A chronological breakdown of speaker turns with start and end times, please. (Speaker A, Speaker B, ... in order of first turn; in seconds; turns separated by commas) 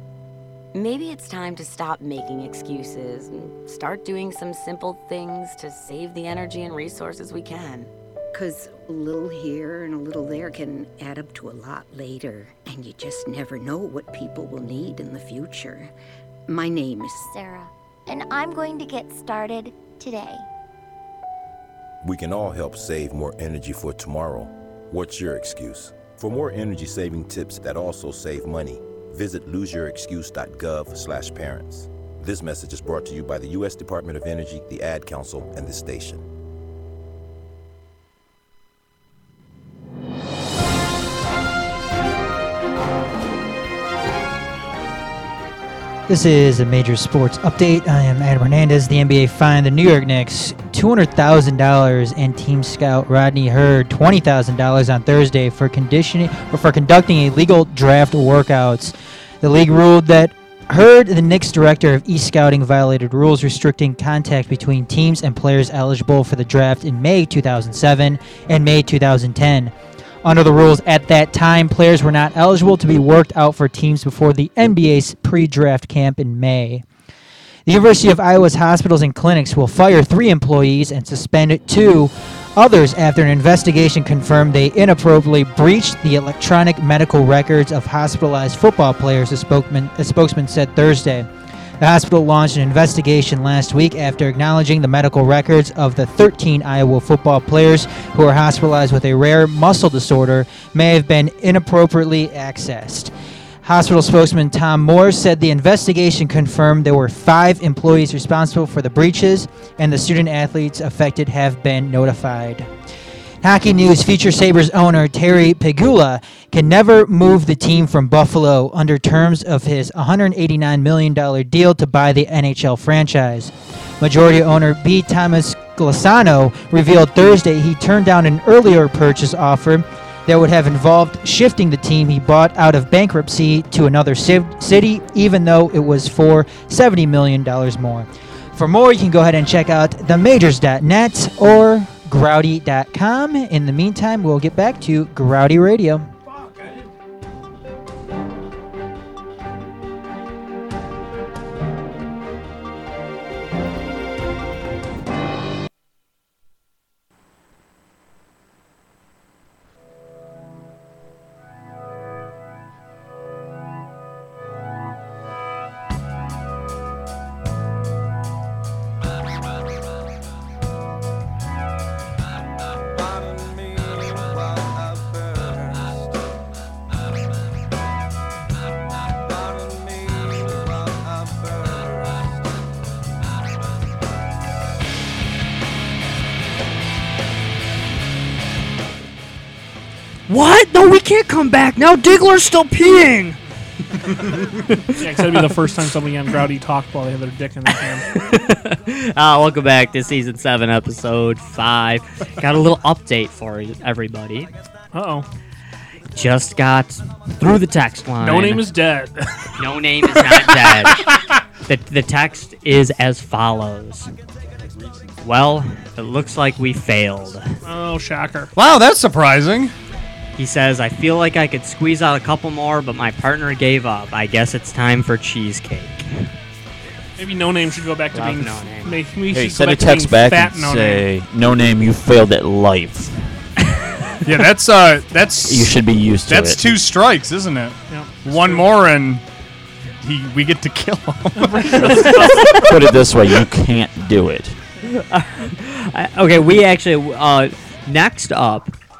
Speaker A: 0.7-7.9, Speaker B: 8.3-15.9, Speaker B: 16.5-17.4, Speaker C: 17.3-20.5, Speaker D: 22.0-36.3, Speaker E: 46.1-69.7, Speaker E: 70.2-76.8, Speaker E: 77.7-91.3, Speaker E: 91.8-103.1, Speaker E: 103.6-112.7, Speaker E: 113.4-146.1, Speaker F: 190.3-193.4, Speaker G: 195.0-198.2, Speaker F: 198.1-204.5, Speaker G: 204.9-205.3, Speaker F: 206.2-208.7, Speaker G: 208.2-209.3, Speaker F: 209.6-211.1, Speaker F: 211.7-214.1, Speaker F: 215.2-217.5, Speaker G: 217.6-218.5, Speaker H: 218.6-219.7, Speaker F: 220.4-226.2, Speaker G: 227.2-231.1, Speaker F: 228.1-229.0, Speaker I: 229.3-233.2, Speaker H: 234.2-235.8, Speaker I: 235.5-236.8, Speaker H: 236.3-239.2, Speaker G: 237.9-238.7, Speaker H: 240.0-242.2, Speaker G: 241.4-242.7, Speaker I: 242.6-244.6, Speaker F: 244.9-248.7